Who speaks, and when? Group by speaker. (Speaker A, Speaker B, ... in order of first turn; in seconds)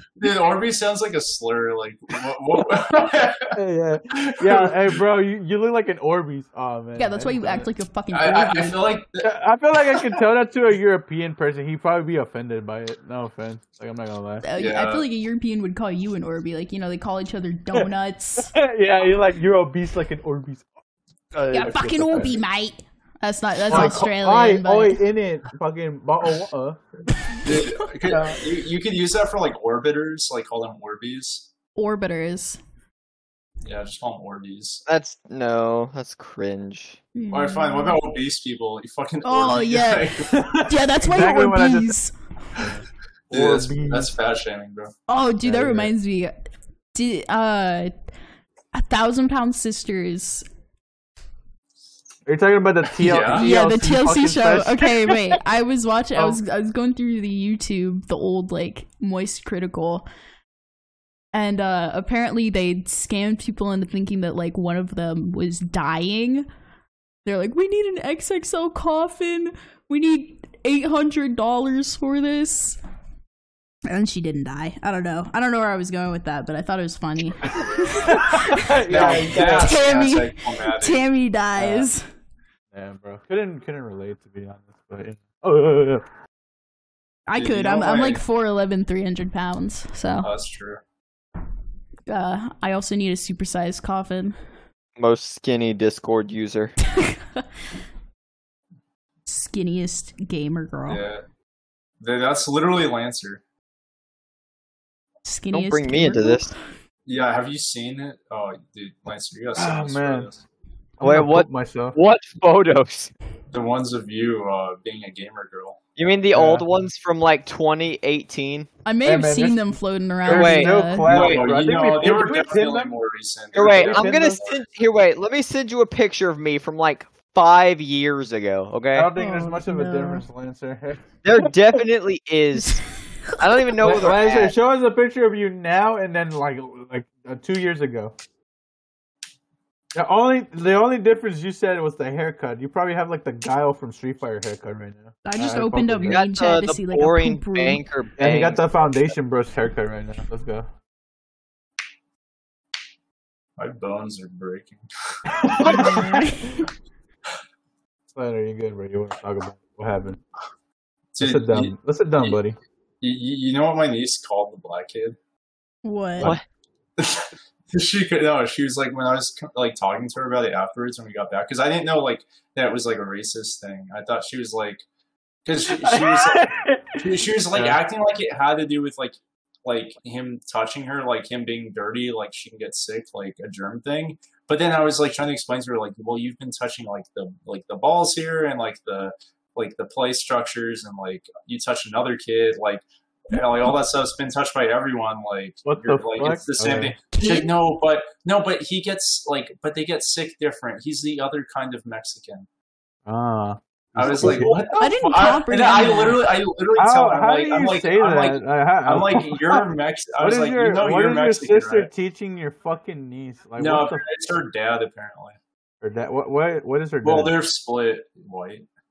Speaker A: 0.2-3.5, 4.1-5.0, 8.1-9.3, 9.8-10.2, 14.6-15.1, 27.4-31.5, 33.6-34.8, 37.3-40.3, 43.3-44.9, 53.0-53.5, 78.9-81.0, 87.4-88.2, 90.2-90.8, 100.9-101.2, 102.0-103.4, 107.1-110.4, 113.5-115.8, 121.1-124.6, 153.6-154.8, 161.1-162.4, 163.0-165.2, 167.0-174.8, 175.4-202.5, 204.0-211.9, 213.6-215.4, 217.0-218.7
Speaker B: 3.5-7.7, 9.2-14.4, 17.7-20.7, 21.3-22.4, 23.7-26.8, 28.1-28.4, 40.3-42.0, 42.6-44.1, 45.4-45.9, 52.3-55.4, 77.6-79.7, 81.6-81.9, 82.7-86.1, 109.6-110.3, 111.0-112.0, 116.3-116.7, 119.0-122.9, 123.6-124.5, 128.9-131.5, 133.8-138.2, 139.9-146.2, 148.2-150.7, 155.3-156.2, 158.2-160.2, 161.2-162.6, 175.6-177.8, 195.7-197.0, 203.1-204.9, 206.8-209.6, 210.2-214.0, 215.8-217.3
Speaker C: 7.0-8.8, 14.4-18.5, 21.5-25.0, 27.1-27.9, 31.8-32.6, 37.1-38.0, 39.2-42.1, 45.1-46.3, 46.9-47.9, 48.7-50.5, 53.3-60.1, 61.3-66.5, 67.2-72.8, 73.9-82.0, 87.3-90.3, 92.1-94.4, 96.8-97.5, 99.3-101.0, 105.2-106.6, 118.9-121.2, 129.2-130.2, 132.6-133.4, 145.2-147.8, 155.6-156.7, 165.8-166.4, 197.1-197.6, 204.8-206.3
Speaker D: 34.9-37.0, 95.0-96.8, 105.5-106.5, 111.0-113.1, 116.0-118.7, 120.3-120.8, 123.5-129.1, 131.2-132.8, 133.4-134.5, 146.0-148.6